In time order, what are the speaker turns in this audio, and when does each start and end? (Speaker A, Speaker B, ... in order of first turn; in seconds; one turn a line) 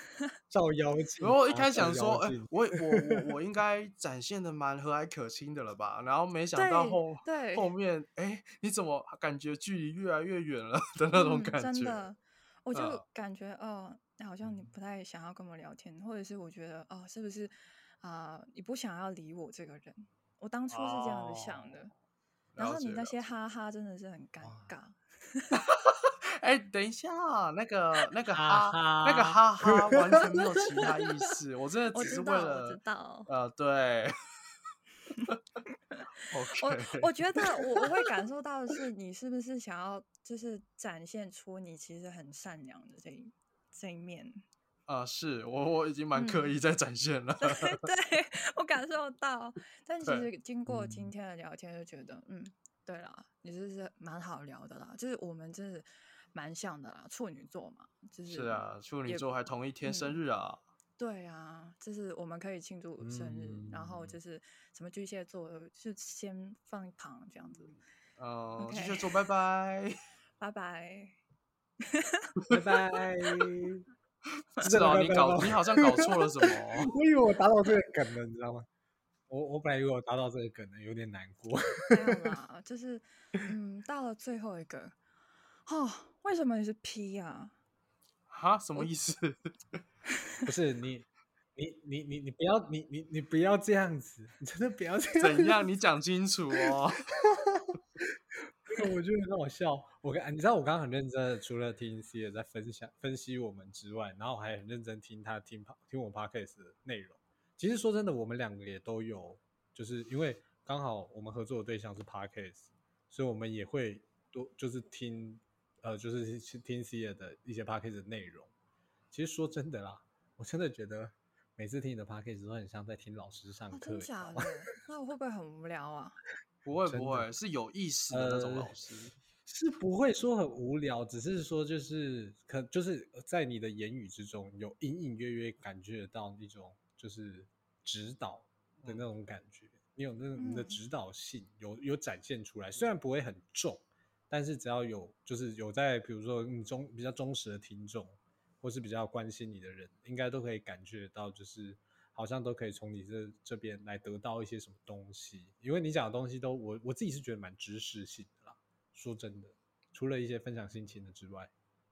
Speaker A: 0.5-3.3
Speaker B: 1.2-12.0
Speaker C: 6.5-7.7
Speaker C: 11.1-21.9
Speaker B: 12.7-13.0
Speaker B: 20.7-21.8
Speaker B: 22.5-23.2
Speaker C: 22.6-25.5
Speaker A: 24.4-24.7
Speaker B: 25.6-34.1
Speaker A: 28.3-30.9
Speaker C: 31.9-33.3
Speaker B: 36.3-37.9
Speaker C: 36.6-44.4
Speaker B: 44.9-47.8
Speaker C: 46.1-46.5
Speaker C: 47.4-60.2
Speaker B: 50.0-50.3
Speaker A: 50.7-51.1
Speaker B: 58.3-60.6
Speaker C: 61.0-67.7
Speaker A: 63.0-64.2
Speaker B: 67.7-69.9
Speaker C: 68.6-69.1
Speaker C: 70.4-71.2
Speaker C: 71.9-72.2
Speaker A: 72.5-73.8
Speaker B: 74.6-76.9
Speaker A: 74.6-78.7
Speaker A: 79.3-82.3
Speaker C: 81.9-85.0
Speaker C: 85.7-87.5
Speaker B: 88.3-89.8
Speaker A: 90.5-95.6
Speaker B: 95.2-97.0
Speaker A: 97.2-97.8
Speaker A: 98.5-118.5
Speaker A: 119.1-124.5
Speaker C: 123.7-126.2
Speaker B: 126.6-129.1
Speaker A: 126.8-127.3
Speaker A: 128.1-128.7
Speaker A: 129.4-161.5
Speaker B: 138.8-139.1
Speaker C: 140.4-140.8